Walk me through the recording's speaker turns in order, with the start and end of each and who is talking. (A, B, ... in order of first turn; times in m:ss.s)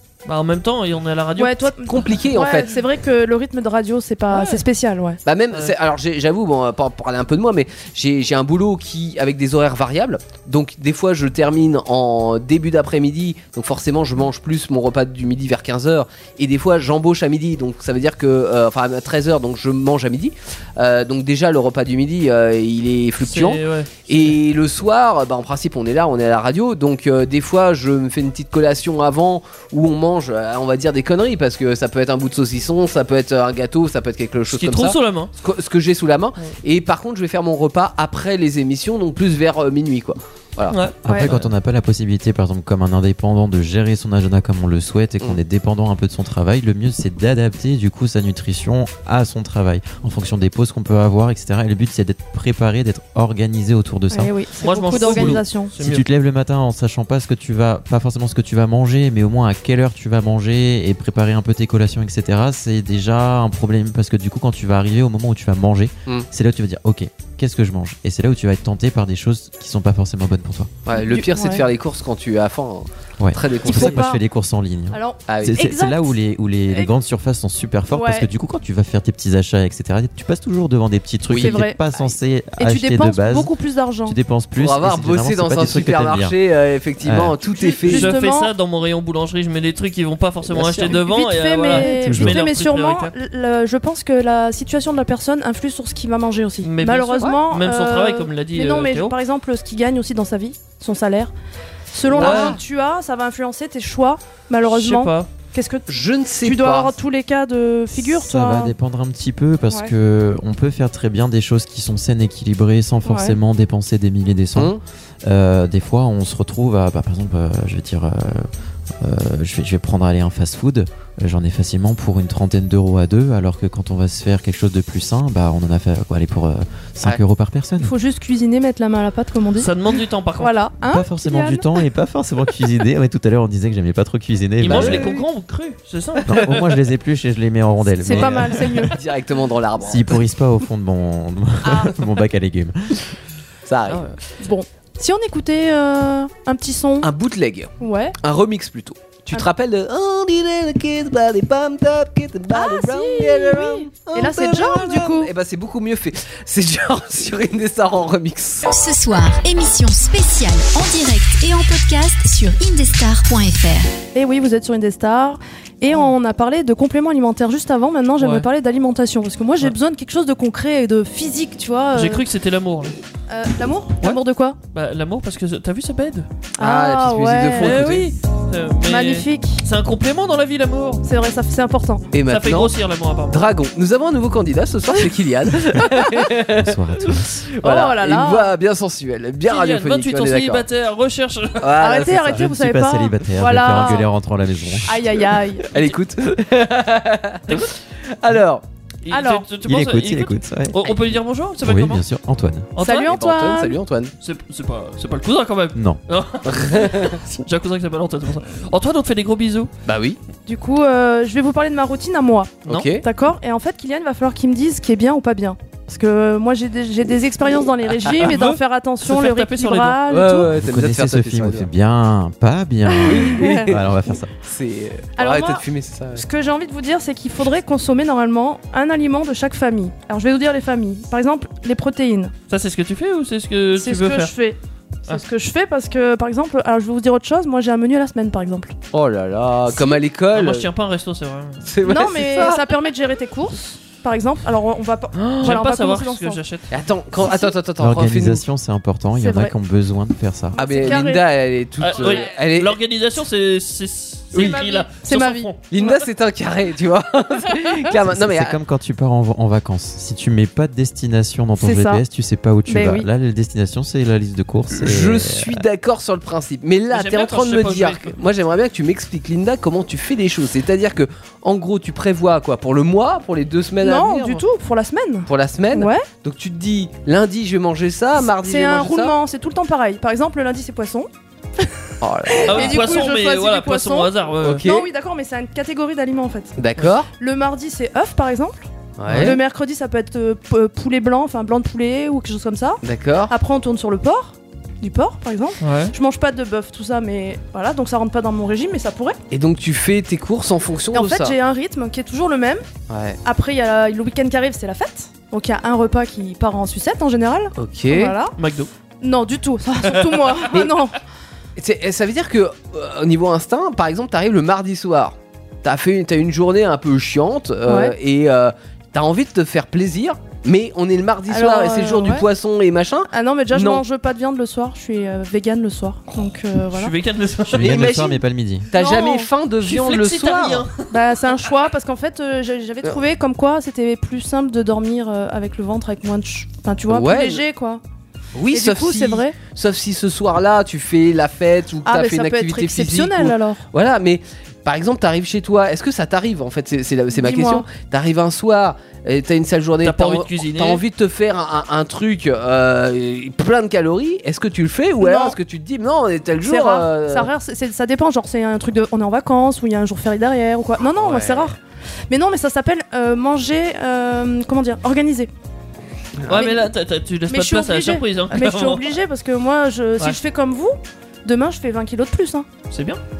0:00.2-0:02.1 A
0:01.4-0:05.2 B
0:01.9-0:02.7 C
0:05.2-0:40.8 C
0:23.2-0:24.4 A
0:34.5-0:35.3 A
0:40.7-0:41.5 A
0:41.0-0:54.3 D
0:54.1-0:55.7 B
0:54.6-0:56.0 A
0:54.9-1:10.7 D
1:10.8-1:14.0 C
1:10.9-1:11.6 B
1:13.2-1:23.5 D
1:13.6-1:14.2 B
1:14.9-1:16.1 B
1:15.3-1:15.6 C
1:17.9-1:18.3 B
1:21.3-1:21.6 C
1:21.3-1:24.2 B
1:24.0-1:26.4 D
1:24.6-1:28.1 C
1:27.0-1:27.4 D
1:27.4-1:28.5 B
1:27.8-1:33.1 A
1:30.5-1:31.0 C
1:30.8-1:41.3 B
1:31.7-1:32.4 D
1:36.6-1:39.2 A
1:41.9-1:45.9 B
1:42.1-1:42.6 C
1:42.2-1:42.6 A
1:44.7-1:45.3 A
1:45.9-1:47.0 C
1:46.4-1:48.7 B
1:48.0-2:07.9 D
1:53.0-1:53.4 B
1:54.5-1:54.8 C
2:07.8-2:09.7 B
2:09.6-2:10.5 A
2:10.4-2:11.7 B
2:10.8-2:15.2 D
2:14.6-2:16.4 A
2:14.6-2:15.2 C
2:16.3-2:18.9 D
2:17.9-2:19.0 B
2:18.1-2:20.2 C
2:19.8-2:23.0 D
2:23.6-2:24.2 C
2:24.4-2:27.1 B
2:27.0-2:38.6 C
2:27.8-2:28.2 B
2:32.5-2:35.3 B
2:38.7-2:43.9 E
2:44.1-2:52.2 B
2:48.2-2:48.4 A
2:51.9-2:53.0 A
2:53.3-2:54.6 B
2:54.7-2:56.3 A
2:56.6-2:57.8 B
2:56.6-2:58.1 C
2:57.6-3:01.0 A
2:58.8-2:59.6 B
3:01.0-3:02.0 B
3:02.1-3:02.7 C
3:02.2-3:03.5 A
3:03.3-3:10.6 C
3:06.4-3:07.4 D
3:07.6-3:08.5 B
3:09.4-3:11.7 A
3:11.6-3:12.4 C
3:11.8-3:14.1 B
3:12.3-3:15.0 D
3:14.8-3:15.8 B
3:15.6-3:18.6 C
3:17.5-3:17.7 A
3:19.0-3:22.0 A
3:19.1-3:19.5 B
3:19.6-3:20.8 D
3:21.6-3:22.7 D
3:22.7-3:23.2 A
3:22.8-3:23.8 B
3:23.1-3:24.1 C
3:24.2-3:29.7 A
3:25.7-3:26.0 D
3:26.4-3:27.2 C
3:29.8-3:30.2 C
3:30.5-3:40.5 B
3:32.6-3:33.0 C
3:37.9-3:40.0 A
3:40.1-3:41.7 C
3:40.5-3:44.3 D
3:42.9-3:43.7 B
3:43.0-3:46.2 C
3:45.2-3:52.3 B
3:52.5-3:54.3 A
3:53.8-3:58.7 B
3:58.9-4:00.7 C
3:59.7-4:01.6 A
4:01.6-4:02.7 C
4:01.8-4:06.4 B
4:05.2-4:05.5 C
4:05.4-4:06.7 A
4:06.7-4:08.4 C
4:07.2-4:07.5 B
4:07.8-4:10.6 D
4:09.2-4:09.5 B
4:10.5-4:11.2 B
4:10.6-4:12.8 C
4:11.8-4:16.0 A
4:14.3-4:14.6 C
4:14.3-4:15.5 B
4:15.7-4:18.6 C
4:18.0-4:25.6 D
4:21.6-4:22.0 B
4:22.6-4:23.1 B
4:24.7-4:34.4 C
4:26.9-4:28.2 A
4:33.8-4:36.1 B
4:35.3-4:39.1 C
4:38.2-4:41.1 B
4:42.0-4:43.0 C
4:42.2-4:46.6 B
4:42.5-4:44.6 A
4:44.4-4:44.9 C
4:46.6-4:47.1 C
4:47.1-4:59.2 B
4:49.0-4:49.4 C
4:49.0-4:49.4 A
4:52.8-4:53.3 C
4:55.6-4:55.9 A
4:59.3-5:01.4 C
5:00.9-5:02.6 B
5:02.9-5:03.2 C
5:03.2-5:08.3 B
5:07.6-5:08.2 C
5:08.4-5:08.7 A
5:09.0-5:11.0 B
5:09.8-5:10.4 A
5:11.6-5:23.8 C
5:17.7-5:17.9 B
5:21.3-5:22.3 B
5:23.1-5:26.9 B
5:26.7-5:28.0 A
5:27.5-5:28.7 D
5:27.5-5:30.7 C
5:28.7-5:29.3 B
5:29.6-5:30.9 A
5:30.9-5:37.8 B
5:36.9-5:37.4 C
5:38.3-5:57.3 C
5:38.5-5:39.4 B
5:41.8-5:43.7 B
5:47.1-5:47.7 B
5:49.8-5:50.8 A
5:55.0-5:55.4 B
5:56.4-6:01.6 B
6:00.9-6:01.5 C
6:02.1-6:05.3 B
6:06.2-6:06.5 C
6:06.2-6:08.8 A
6:06.3-6:06.7 B
6:07.3-6:12.5 B
6:12.7-6:13.0 A